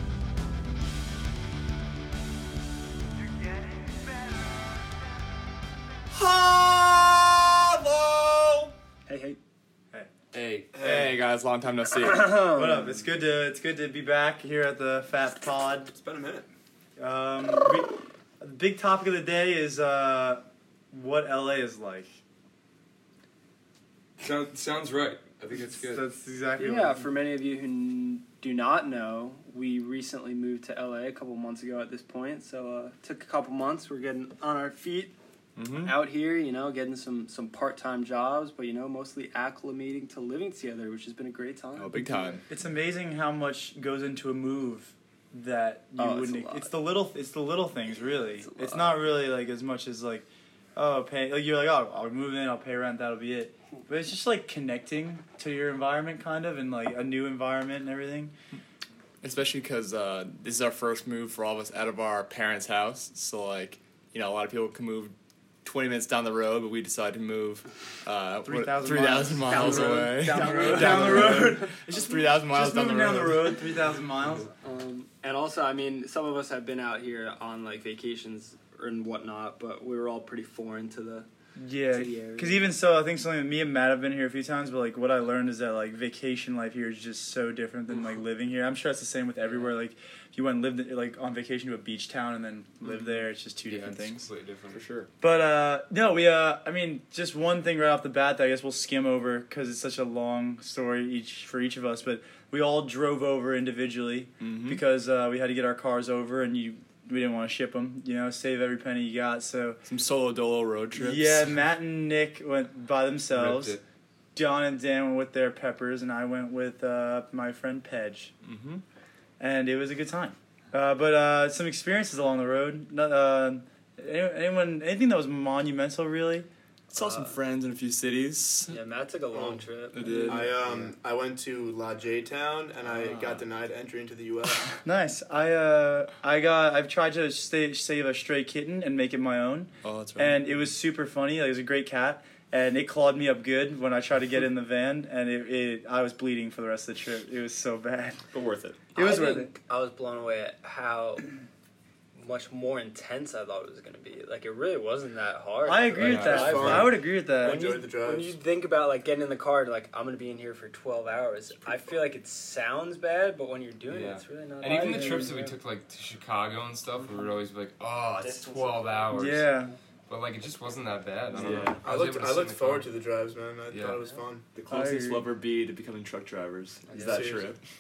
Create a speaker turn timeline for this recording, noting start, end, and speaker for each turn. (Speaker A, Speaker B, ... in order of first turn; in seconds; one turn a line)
Speaker A: 6.1-8.7
Speaker B: 9.1-9.4
Speaker C: 10.3-10.7
Speaker D: 10.7-11.1
Speaker A: 10.8-12.4
Speaker B: 12.0-12.9
Speaker E: 12.5-15.9
Speaker D: 15.9-16.5
Speaker E: 17.0-22.1
Speaker C: 24.2-26.0
Speaker E: 25.8-27.1
Speaker B: 26.6-35.1
Speaker A: 35.5-36.0
Speaker B: 35.8-42.4
Speaker A: 41.8-42.4
Speaker E: 42.5-50.2
Speaker B: 46.0-46.7
Speaker B: 48.4-49.0
Speaker E: 50.8-58.3
Speaker A: 59.2-73.7
Speaker E: 68.5-74.5
Speaker B: 69.4-71.7
Speaker B: 74.5-81.3
Speaker E: 81.6-94.3
Speaker B: 81.9-82.7
Speaker B: 89.4-89.8
Speaker C: 93.7-94.8
Speaker A: 94.7-95.1
Speaker E: 95.2-109.8
Speaker A: 104.4-104.8
Speaker A: 109.8-111.5
Speaker E: 111.0-113.8
Speaker C: 113.3-113.8
Speaker E: 114.3-118.3
Speaker A: 118.4-118.8
Speaker E: 119.4-126.5
Speaker A: 126.9-128.7
Speaker B: 126.9-127.3
Speaker B: 128.7-130.7
Speaker D: 129.3-129.6
Speaker A: 129.9-130.7
Speaker D: 130.3-134.8
Speaker A: 132.9-133.4
Speaker E: 134.8-148.2
Speaker A: 139.8-140.4
Speaker A: 148.3-148.8
Speaker E: 148.9-149.5
Speaker B: 148.9-151.3
Speaker B: 152.1-165.6
Speaker E: 155.6-157.6
Speaker A: 156.0-156.9
Speaker D: 156.2-158.3
Speaker C: 163.9-169.4
Speaker E: 164.7-165.3
Speaker B: 168.2-169.1
Speaker E: 169.1-169.7
Speaker C: 170.1-172.9
Speaker A: 171.3-171.8
Speaker D: 171.8-174.5
Speaker C: 173.7-174.0
Speaker A: 174.5-177.6
Speaker E: 174.7-175.2
Speaker B: 176.9-177.2
Speaker D: 176.9-177.5